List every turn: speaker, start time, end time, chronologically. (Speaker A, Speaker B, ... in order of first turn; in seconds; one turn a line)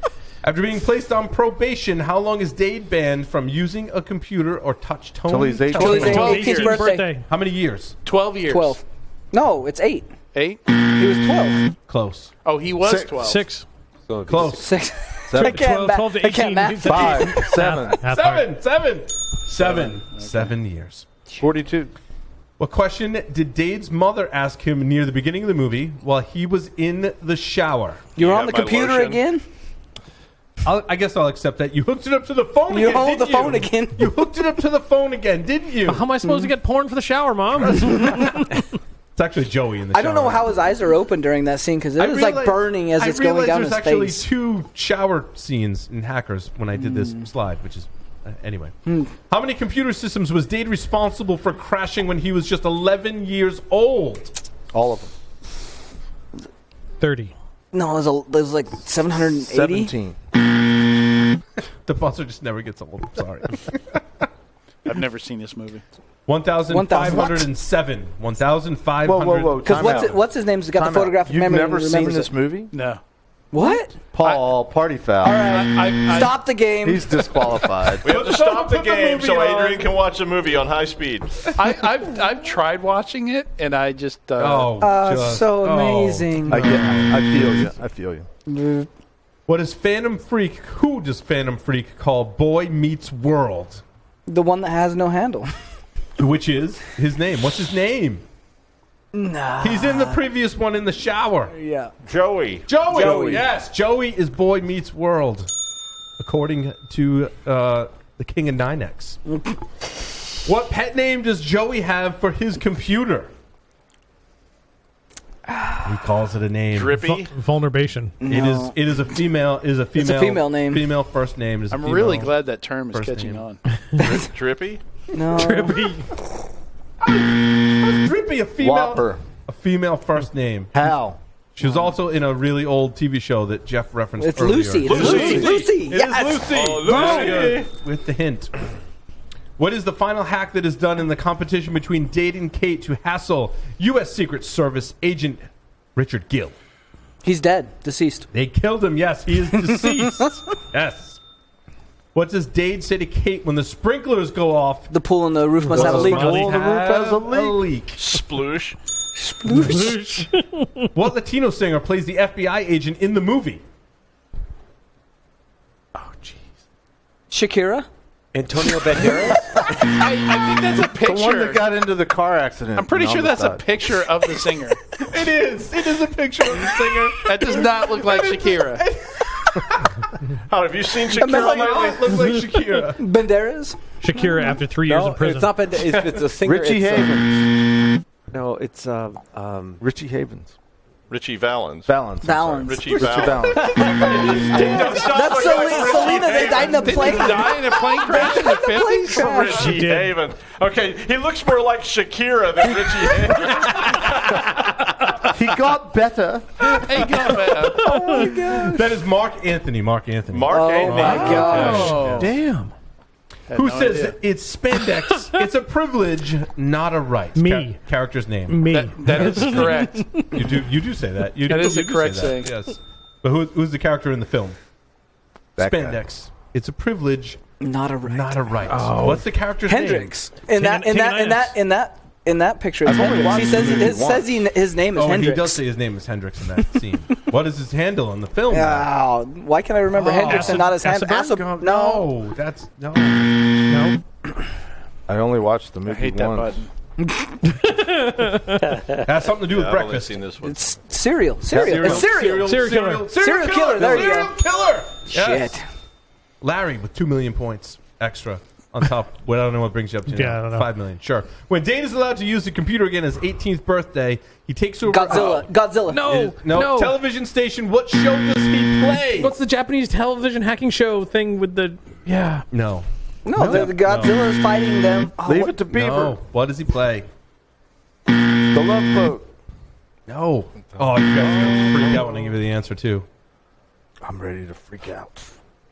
Speaker A: 0.4-6.5
Speaker B: 5.3-6.3
Speaker C: 5.7-7.1
Speaker D: 5.8-7.3
Speaker E: 5.9-6.9
Speaker A: 7.1-8.0
Speaker E: 8.1-8.8
Speaker C: 8.5-10.1
Speaker E: 10.3-10.6
Speaker C: 10.9-11.7
Speaker A: 11.9-12.3
Speaker E: 12.4-13.4
Speaker B: 12.8-13.2
Speaker D: 13.1-13.7
Speaker F: 14.1-14.6
Speaker A: 14.3-14.7
Speaker C: 14.5-17.8
Speaker B: 15.3-15.7
Speaker D: 15.3-18.6
Speaker B: 16.8-18.0
Speaker A: 17.9-21.1
Speaker E: 19.5-20.5
Speaker B: 21.4-21.9
Speaker A: 22.6-28.2
Speaker G: 28.2-29.2
Speaker C: 28.2-29.4
Speaker A: 30.6-36.1
Speaker C: 32.7-34.1
Speaker D: 35.8-38.5
Speaker C: 36.2-36.5
Speaker A: 37.6-38.5
Speaker C: 37.8-38.3
Speaker A: 39.2-40.5
Speaker C: 39.9-44.3
Speaker A: 42.0-54.3
Speaker C: 46.8-47.3
Speaker C: 48.9-49.1
Speaker B: 54.7-55.1
Speaker D: 57.0-57.3
Speaker C: 57.7-59.9
Speaker B: 59.4-60.2
Speaker A: 61.9-64.0
Speaker E: 64.9-65.8
Speaker A: 66.3-70.1
Speaker C: 66.7-67.5
Speaker B: 69.0-72.7
Speaker C: 69.6-72.3
Speaker E: 72.7-73.0
Speaker C: 73.5-74.0
Speaker B: 74.1-75.5
Speaker E: 74.2-74.5
Speaker C: 75.2-77.3
Speaker E: 75.5-76.4
Speaker B: 76.8-78.1
Speaker G: 78.0-81.5
Speaker A: 78.0-80.0
Speaker E: 81.6-84.8
Speaker A: 84.4-87.7
Speaker C: 84.8-86.8
Speaker B: 86.5-88.3
Speaker C: 88.5-88.9
Speaker A: 89.5-93.8
Speaker C: 94.3-95.5
Speaker A: 96.2-98.2
Speaker C: 99.1-100.3
Speaker A: 99.6-101.5
Speaker C: 101.5-101.9
Speaker G: 102.0-102.7
Speaker A: 102.7-105.5
Speaker C: 102.8-103.5
Speaker A: 106.2-109.2
Speaker A: 110.5-113.3
Speaker C: 115.5-115.8
Speaker A: 115.8-117.0
Speaker G: 116.7-117.3
Speaker D: 117.0-118.2
Speaker C: 118.2-118.8
Speaker A: 118.2-122.4
Speaker C: 120.0-120.9
Speaker E: 121.7-123.6
Speaker A: 122.9-123.5
Speaker G: 124.0-124.8
Speaker C: 125.1-126.0
Speaker D: 125.3-126.1
Speaker A: 127.0-130.7
Speaker B: 128.6-129.2
Speaker B: 130.7-131.2
Speaker A: 131.6-138.5
Speaker C: 131.6-131.9
Speaker C: 134.2-137.5
Speaker G: 134.8-135.7
Speaker B: 134.9-135.5
Speaker G: 136.5-137.7
Speaker A: 139.6-146.6
Speaker C: 147.2-148.3
Speaker A: 148.3-151.2
Speaker C: 149.7-150.3
Speaker A: 152.1-154.9
Speaker C: 154.9-156.5
Speaker A: 155.7-158.0
Speaker B: 155.7-157.7
Speaker G: 157.9-158.8
Speaker C: 159.2-160.1
Speaker D: 159.5-160.9
Speaker A: 160.9-163.6
Speaker D: 166.0-166.4
Speaker C: 167.3-167.9
Speaker F: 168.3-169.6
Speaker E: 169.8-171.7
Speaker B: 171.0-173.7
Speaker E: 172.8-174.9
Speaker A: 175.0-179.9
Speaker E: 177.2-178.8
Speaker G: 180.5-182.2
Speaker A: 181.2-183.0
Speaker C: 181.2-181.9
Speaker C: 183.0-183.8
Speaker D: 184.0-185.6
Speaker F: 184.8-187.2
Speaker B: 186.4-187.4
Speaker F: 188.3-189.8
Speaker B: 189.8-190.5
Speaker G: 191.1-197.3
Speaker B: 191.9-193.9
Speaker C: 192.2-193.1
Speaker A: 193.1-196.8
Speaker C: 194.5-199.8
Speaker E: 196.7-199.4
Speaker G: 199.1-204.7
Speaker D: 199.5-200.2
Speaker B: 205.3-206.7
Speaker E: 206.7-207.9
Speaker A: 207.2-212.3
Speaker D: 207.2-208.3
Speaker C: 207.8-208.9
Speaker G: 210.3-212.2
Speaker C: 210.5-212.0
Speaker D: 211.1-212.7
Speaker E: 211.6-212.3
Speaker E: 213.5-214.2
Speaker A: 213.5-224.6
Speaker D: 214.8-215.4
Speaker D: 217.4-217.8
Speaker D: 218.5-220.5
Speaker E: 218.7-220.2
Speaker E: 221.5-222.6
Speaker B: 225.6-226.0
Speaker A: 225.6-227.4
Speaker C: 227.6-228.5
Speaker A: 228.1-230.1
Speaker D: 228.7-229.3
Speaker C: 229.7-235.6
Speaker D: 230.5-231.6
Speaker B: 232.8-234.4
Speaker A: 234.9-238.9
Speaker C: 238.5-242.1
Speaker A: 239.9-243.8
Speaker D: 240.2-241.6
Speaker D: 243.7-244.0
Speaker B: 245.1-246.6
Speaker E: 245.9-246.7
Speaker D: 247.5-248.6
Speaker A: 248.9-250.2
Speaker G: 249.4-250.8
Speaker C: 250.4-254.4
Speaker A: 251.5-255.6
Speaker B: 251.5-252.0
Speaker D: 252.3-253.2
Speaker C: 255.1-255.6
Speaker A: 256.4-269.4
Speaker D: 260.1-260.7
Speaker C: 264.9-266.1
Speaker D: 265.9-267.0
Speaker D: 269.2-272.5
Speaker A: 272.5-274.2
Speaker C: 273.2-275.6
Speaker D: 273.4-273.7
Speaker B: 275.2-276.2
Speaker A: 275.7-277.1
Speaker B: 278.5-279.3
Speaker A: 280.1-283.1
Speaker B: 280.7-282.1
Speaker B: 284.0-285.3